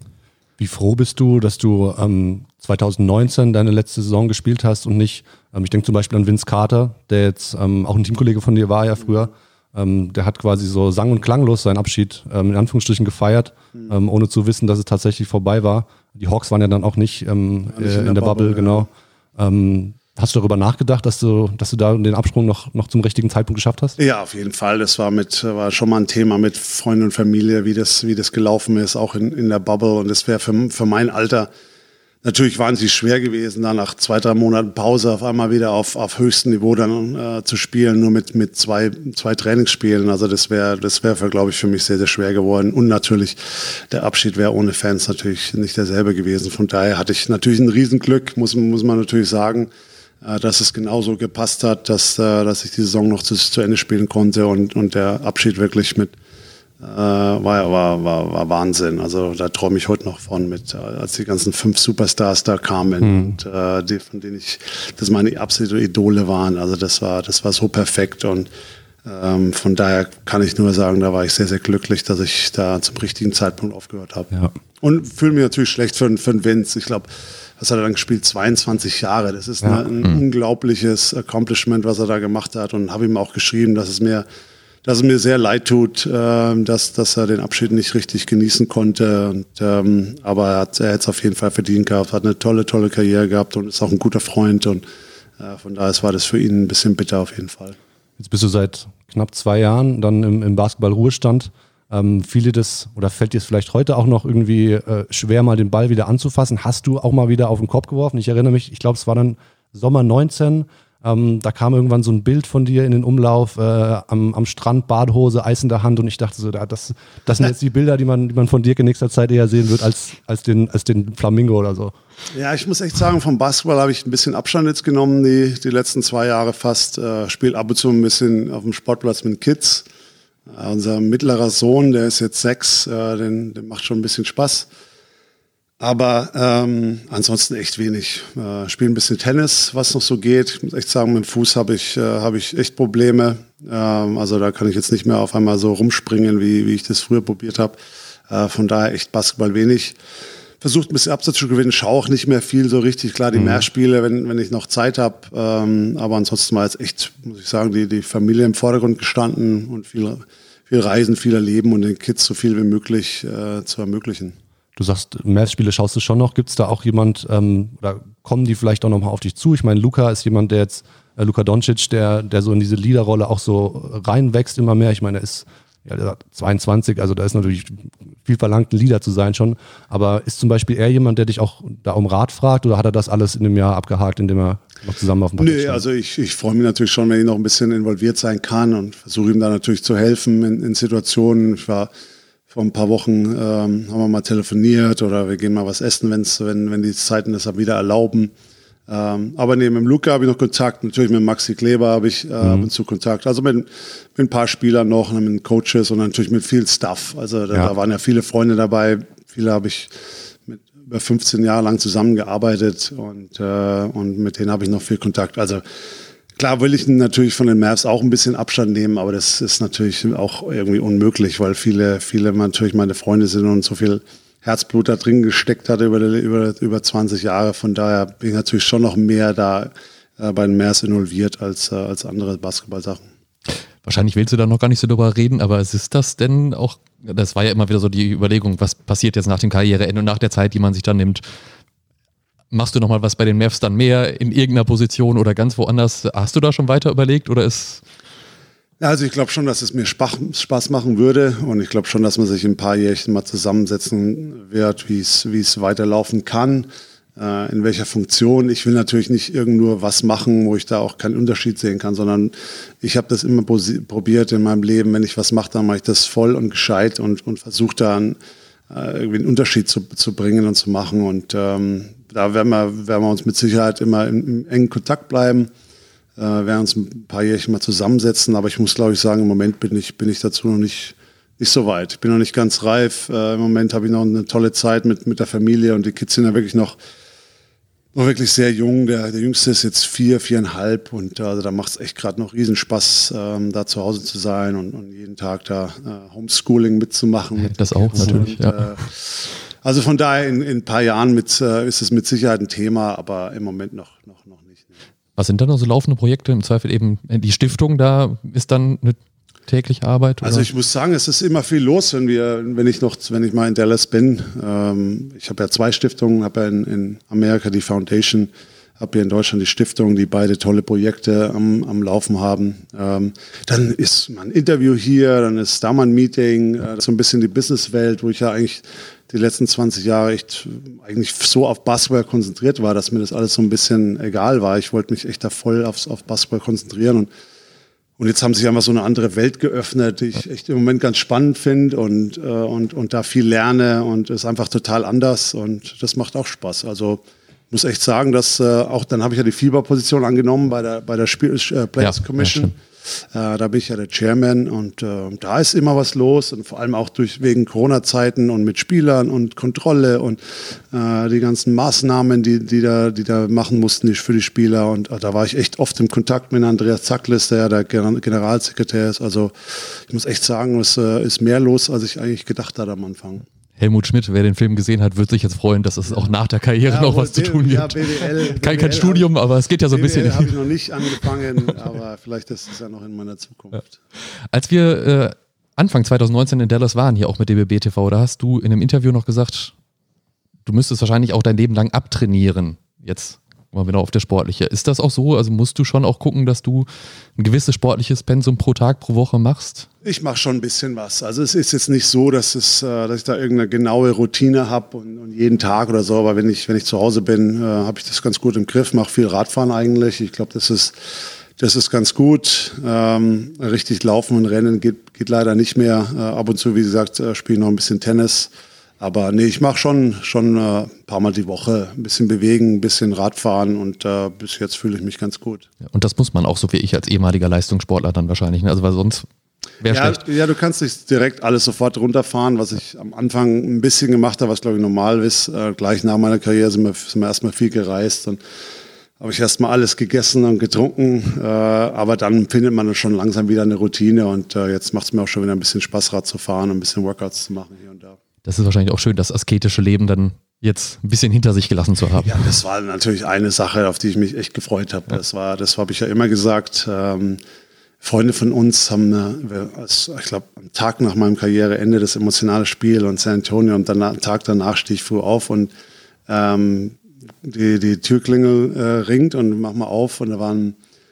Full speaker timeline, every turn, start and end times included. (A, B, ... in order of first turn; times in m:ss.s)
0:00.6-0:24.0 A
0:17.7-0:18.9 B
0:24.0-0:31.5 B
0:32.2-0:49.7 B
0:50.2-0:56.1 B
0:56.8-1:08.5 B
1:03.0-1:03.3 A
1:09.0-1:17.1 B
1:17.6-1:24.2 B
1:19.6-1:19.9 A
1:24.8-1:34.8 B
1:35.4-1:37.8 B
1:38.2-2:01.9 A
2:02.3-2:09.8 B
2:10.5-2:14.7 B
2:15.8-2:27.8 B
2:28.3-2:30.0 B
2:30.6-2:44.3 B
2:33.3-2:33.6 C
2:44.8-3:05.8 A
3:05.4-3:11.9 B
3:12.5-3:18.3 B
3:18.9-3:29.9 B
3:22.4-3:22.7 A
3:30.5-3:35.6 B
3:36.4-3:53.0 B
3:53.8-4:01.2 C
4:02.5-4:07.8 C
4:08.8-4:28.2 B
4:28.7-4:35.5 B
4:36.2-4:46.8 B
4:47.9-5:04.7 B
4:57.4-4:58.7 C
5:05.2-5:10.5 C
5:10.2-5:37.1 B
5:38.0-5:52.6 B
5:51.8-5:52.5 C
5:53.1-6:00.2 B
6:00.7-6:13.2 B
6:13.6-6:20.4 C
6:15.9-6:19.1 B
6:19.7-6:23.8 B
6:24.3-6:29.5 C
6:30.4-6:39.7 C
6:39.8-6:50.7 B
6:51.4-7:05.5 B
7:05.6-7:09.0 C
7:09.6-7:10.0 C
7:09.6-7:18.2 B
7:19.0-7:28.0 B
7:28.2-7:32.3 C
7:32.0-7:37.2 B
7:37.8-7:45.5 B
7:46.1-7:50.6 B